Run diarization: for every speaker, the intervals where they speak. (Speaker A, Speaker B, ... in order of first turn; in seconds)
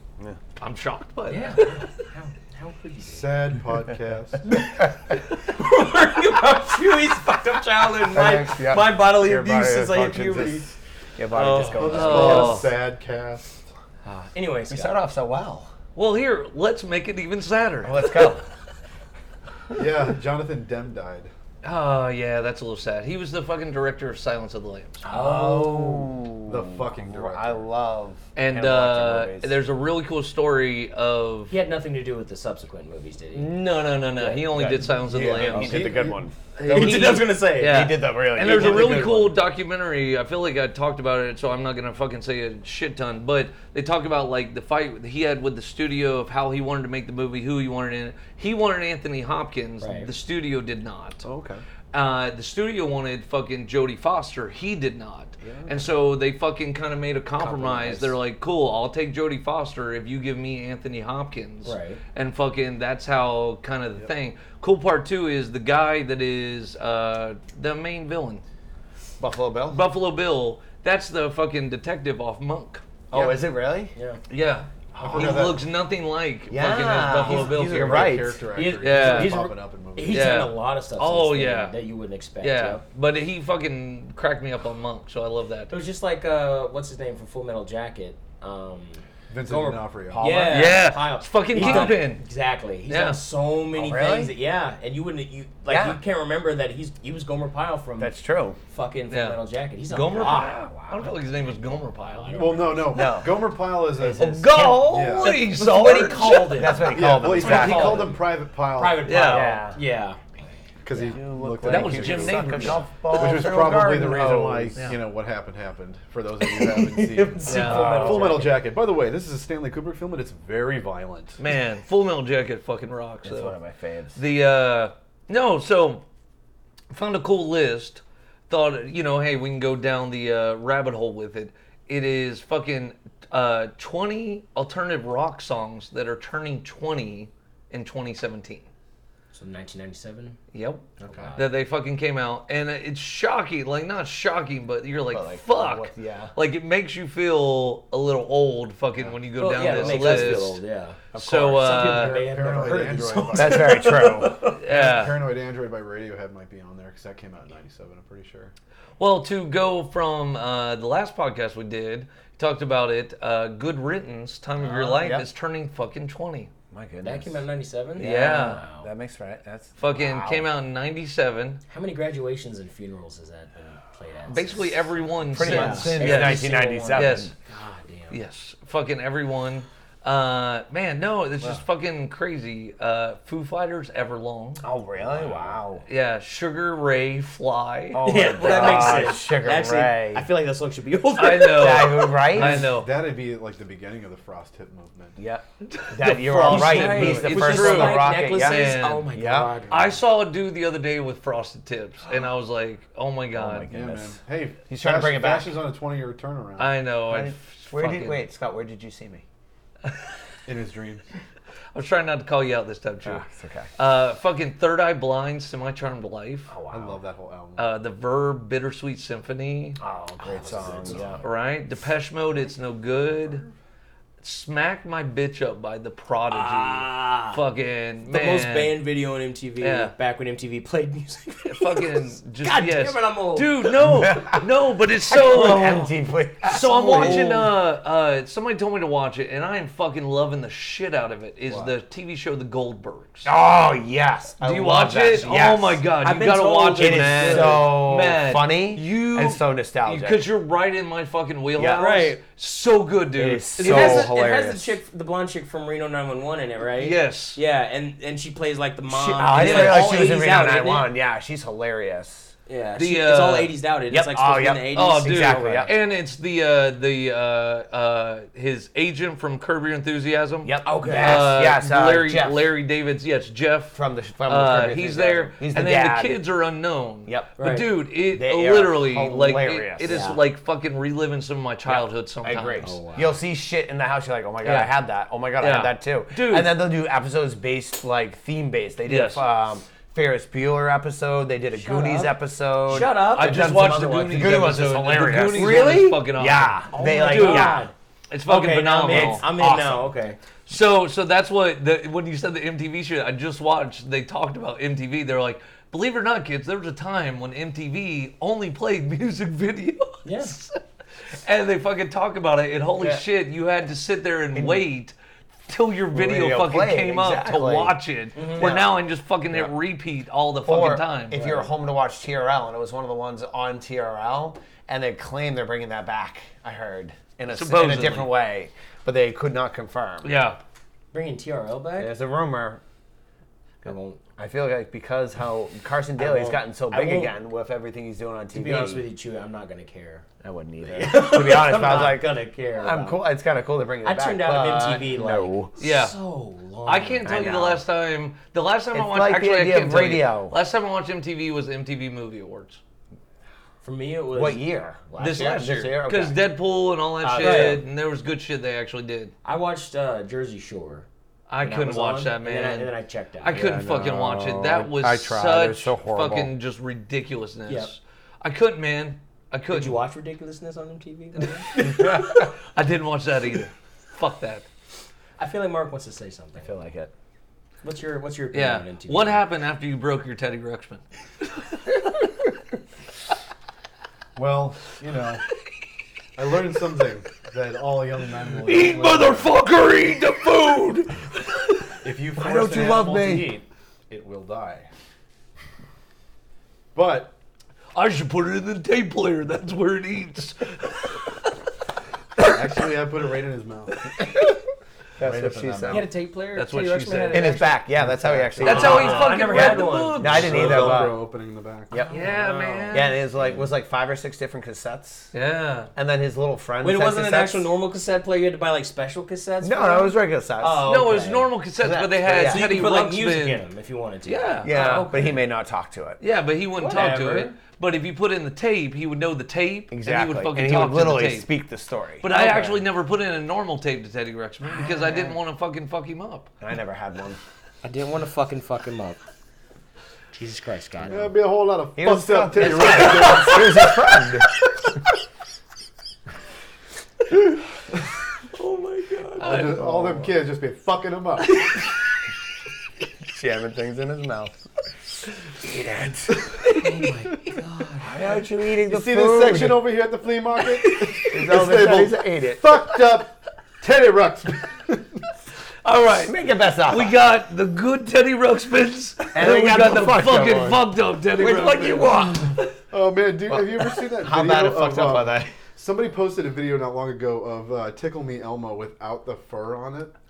Speaker A: 0.6-1.9, 11.3-12.7, 15.9-18.3, 21.6-25.1, 28.4-31.5, 33.3-36.0, 36.5-51.2, 51.9-68.4, 69.7-72.8, 74.3-78.2, 78.8-79.5, 80.1-81.8, 82.4-85.7, 90.5-92.2, 92.9-93.2, 99.1-102.6, 104.1-108.0, 109.0-109.6, 111.6-112.9, 117.4-118.2, 121.4-123.5, 124.2-126.0, 126.9-138.7, 140.5-150.6, 151.1-152.2, 154.6-155.2, 159.0-166.5, 168.0-168.6, 169.8-171.6, 174.3-177.3, 178.1-184.6, 185.8-189.2, 191.1-192.9, 195.7-199.1, 199.7-203.7, 206.6-208.2, 211.7-213.2, 213.8-216.5, 217.6-219.8, 221.2-223.4, 224.2-228.8, 229.6-229.9, 231.4-235.9, 236.4-243.3, 244.4-254.1, 256.8-257.4, 259.3-260.2, 262.8-263.5, 264.7-282.7, 284.4-284.7, 285.4-286.6, 288.8-289.2, 293.1-299.2, 300.5-310.6, 311.1-314.9, 315.4-321.2, 327.3-328.1, 330.0-330.4, 345.6-345.9, 346.6-352.6, 355.0-359.1, 361.3-362.7, 363.2-369.8, 371.4-374.4, 378.3-380.8, 388.4-391.8, 397.7-401.3, 402.2-402.6, 406.3-407.4, 408.4-410.8, 411.9-412.9, 415.1-415.7, 420.6-423.4, 424.1-424.8, 426.0-431.3, 432.0-436.3, 448.4-449.6, 465.6-466.1, 466.7-472.5
Speaker B: 1.3-3.3, 5.4-10.7, 11.4-12.2, 14.0-15.0, 25.0-26.1, 31.5-33.6, 34.1-34.8, 36.6-39.3, 49.8-50.1, 61.6-62.0, 78.5-82.8, 85.7-98.1, 98.7-100.6, 102.1-102.8, 105.2-108.2, 108.7-110.2, 116.4-118.5, 139.3-140.4, 141.0-141.5, 149.4-154.6, 167.0-168.9, 171.7-174.8, 175.4-178.2, 188.0-192.0, 196.4-200.0, 220.2-221.2, 226.3-227.4, 228.0-233.7, 236.4-237.5, 246.0-247.7, 251.8-252.2, 253.6-260.9, 262.5-265.7, 270.6-271.4, 277.4-277.7, 279.9-280.2, 282.6-283.1, 291.5-293.5, 295.3-296.0, 296.7-297.7, 298.3-300.2, 310.0-310.4, 318.1-318.5, 321.1-321.5, 330.9-331.9, 333.6-334.0, 336.0-337.1, 338.3-340.1, 340.6-343.0, 343.8-347.3, 353.6-354.4, 357.2-357.6, 359.2-360.9, 361.4-363.4, 367.5-367.7, 369.5-371.5, 375.2-376.5, 377.6-379.2, 405.7-407.6, 408.4-410.2, 411.7-413.4, 416.6-421.3, 422.1-425.2, 426.6-427.3, 432.2-432.5, 437.6-439.0, 440.1-441.1, 448.9-449.2, 456.5-458.0
Speaker C: 3.0-4.5, 11.7-13.6, 19.7-21.3, 26.4-27.6, 35.3-36.2, 74.9-75.6, 77.2-80.4, 89.3-90.3, 102.3-105.4, 106.9-109.2, 110.8-121.4, 149.7-150.1, 151.2-158.5, 192.3-195.2, 203.7-206.7, 210.4-211.0, 216.7-217.7, 220.6-221.0, 241.5-241.7, 384.1-385.2, 386.1-389.4, 391.8-394.7, 396.7-397.1, 402.2-403.9, 405.0-405.9, 407.7-409.1, 410.0-412.2, 440.9-443.8, 449.2-451.6, 458.0-465.0, 472.7-479.9
Speaker D: 8.1-12.7, 14.7-15.7, 17.8-18.4, 25.1-29.6, 34.5-39.3, 51.2-51.6, 55.4-55.9, 57.4-58.1, 69.2-69.8, 73.1-73.9, 75.0-75.6, 76.5-78.4, 90.1-90.8, 91.5-92.0, 93.7-94.3, 95.7-96.0, 98.0-98.6, 100.7-101.1, 102.9-103.4, 104.0-105.0, 105.7-108.2, 109.3-109.8, 110.9-114.9, 117.5-118.5, 123.2-124.2, 145.1-146.3, 149.8-150.4, 152.6-154.4, 164.6-165.3, 166.7-167.4, 167.9-170.5, 175.3-177.3, 184.6-185.8, 187.9-190.3, 191.4-192.7, 195.2-199.6, 203.3-205.5, 207.1-209.2, 213.0-213.7, 216.5-217.0, 219.8-221.2, 233.8-234.5, 235.1-237.5, 243.2-245.8, 246.8-250.3, 251.6-251.8, 253.1-254.8, 258.9-262.3, 263.9-265.8, 270.4-272.5, 273.7-276.2, 277.1-277.3, 278.1-280.1, 281.6-297.7, 298.8-299.9, 312.8-313.0, 314.3-314.6, 315.9-317.8, 318.3-318.7, 320.4-330.1, 331.8-332.6, 334.2-338.8, 340.2-345.5, 347.0-347.6, 348.7-350.4, 354.1-356.2, 357.0-357.6, 363.3-366.3, 371.6-372.1, 376.4-376.9, 392.2-393.3, 405.0-405.9, 407.1-411.0, 412.7-415.1, 415.7-417.5, 419.4-420.7, 421.6-422.6, 424.4-426.0, 429.7-432.5, 434.6-435.1, 436.4-437.2, 441.8-444.3, 449.3-450.1, 453.0-454.4, 455.4-456.3, 457.8-459.7, 461.1-462.5, 466.0-467.0, 469.1-472.4, 473.3-475.3